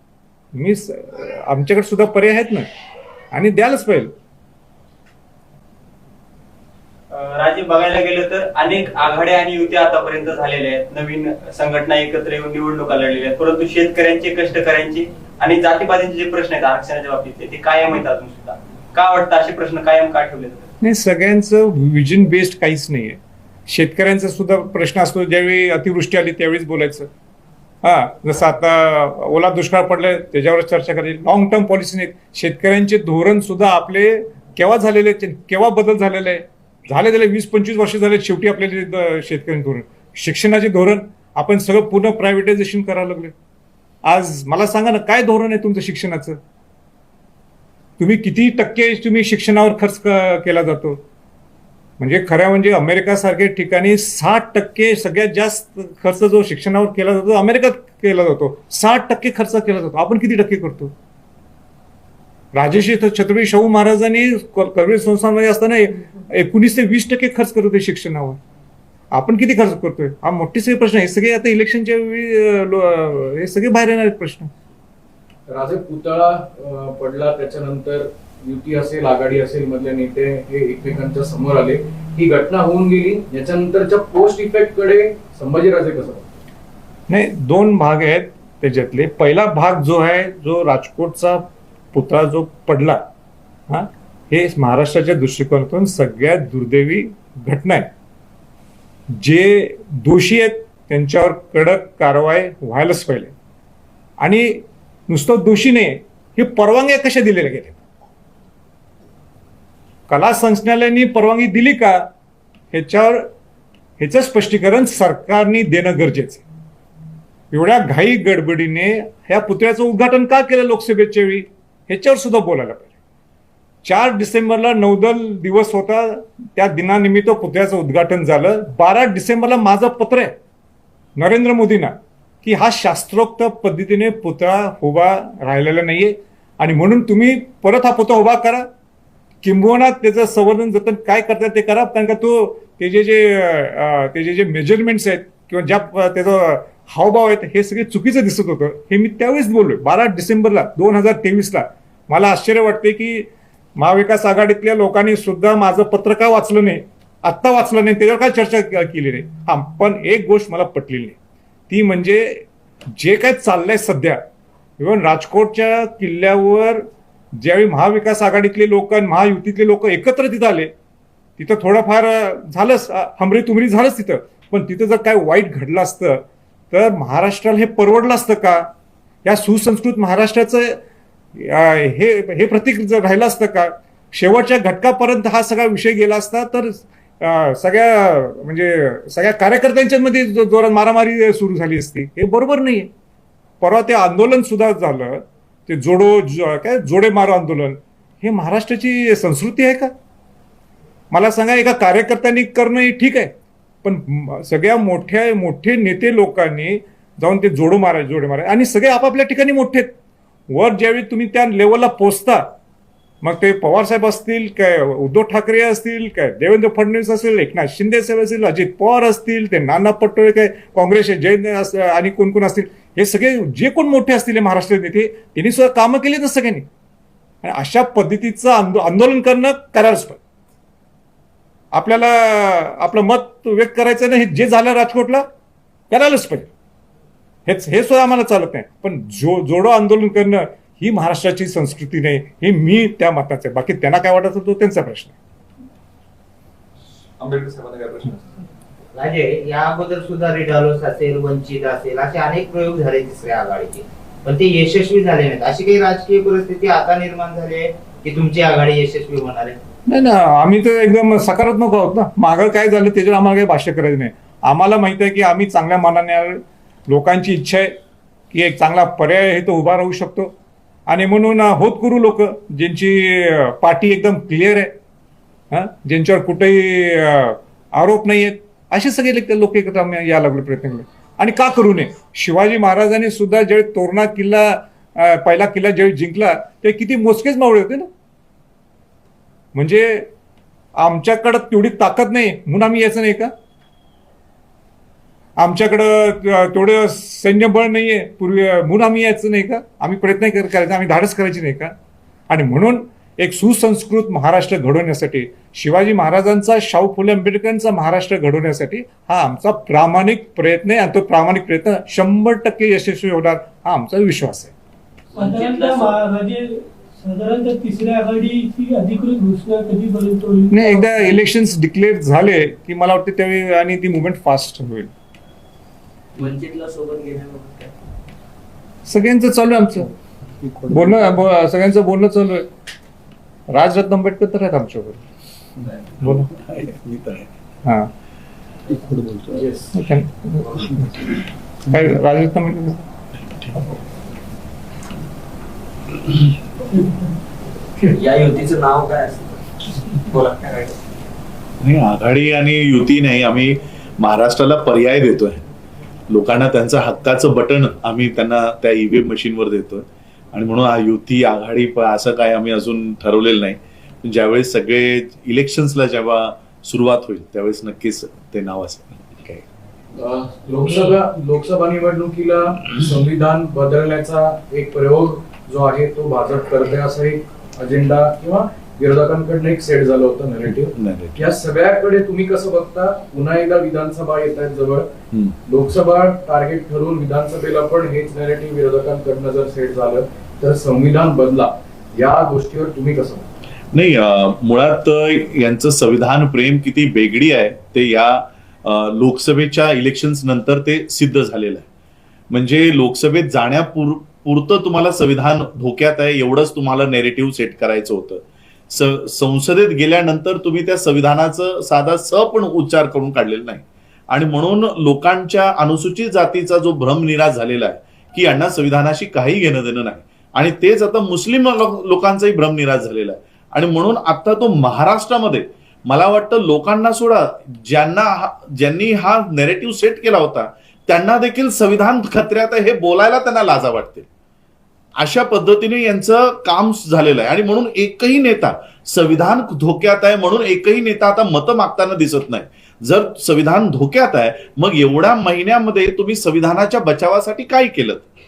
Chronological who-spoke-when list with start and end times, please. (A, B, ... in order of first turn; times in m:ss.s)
0:00.5-0:02.7 A
0:03.3-0:04.1 A
0:07.1-0:20.7 B
0:20.8-0:27.1 A
0:27.8-0:43.3 A
0:44.1-0:46.4 A
0:48.0-0:51.0 A
0:52.0-1:00.9 A
1:02.5-1:08.4 A
1:09.1-1:14.5 A
1:15.5-1:26.3 C
1:27.1-1:33.0 A
1:33.7-1:37.9 A
1:39.2-1:43.3 A
1:44.2-1:47.8 A
1:50.1-1:52.1 A
1:52.7-1:53.3 A
1:54.0-1:56.4 A
1:57.5-2:02.9 A
2:03.8-2:10.3 A
2:11.2-2:18.7 A
2:19.4-2:41.2 A
2:41.7-2:42.5 A
2:43.0-2:44.2 A
2:44.8-2:50.7 A
2:51.4-2:58.7 A
2:59.2-3:00.8 A
3:01.4-3:12.9 A
3:13.6-3:19.9 A
3:21.1-3:23.3 A
3:23.8-3:29.9 A
3:30.5-3:32.5 A
3:33.2-3:46.7 A
3:47.4-3:50.2 A
3:51.7-3:55.3 A
3:55.9-3:56.5 A
3:57.5-4:05.2 A
4:07.2-4:08.4 D
4:08.9-4:19.6 E
4:19.9-4:27.7 A
4:28.3-4:30.3 A
4:30.9-4:34.7 A
4:35.5-4:47.9 A
4:49.6-4:50.1 A
4:50.8-4:53.3 A
4:55.4-5:01.7 A
5:02.3-5:14.5 A
5:15.1-5:16.0 F
5:15.2-5:21.1 G
5:20.5-5:24.9 A
5:26.2-5:27.7 F
5:28.9-5:29.9 A
5:30.4-5:31.0 D
5:30.7-5:32.5 A
5:33.5-5:35.0 A
5:36.0-5:36.3 A
5:36.1-5:37.3 H
5:37.6-5:37.9 A
5:39.0-5:39.4 D
5:39.3-5:39.8 C
5:39.7-5:40.9 A
5:41.7-5:42.9 A
5:46.7-5:47.1 G
5:47.8-5:49.4 F
5:50.1-5:50.5 F
5:50.4-5:50.7 D
5:51.6-5:55.4 H
5:56.1-6:09.4 H
6:10.0-6:24.9 C
6:20.7-6:21.3 H
6:25.5-6:33.3 C
6:33.7-6:41.6 H
6:42.3-7:14.1 H
7:15.0-7:28.1 H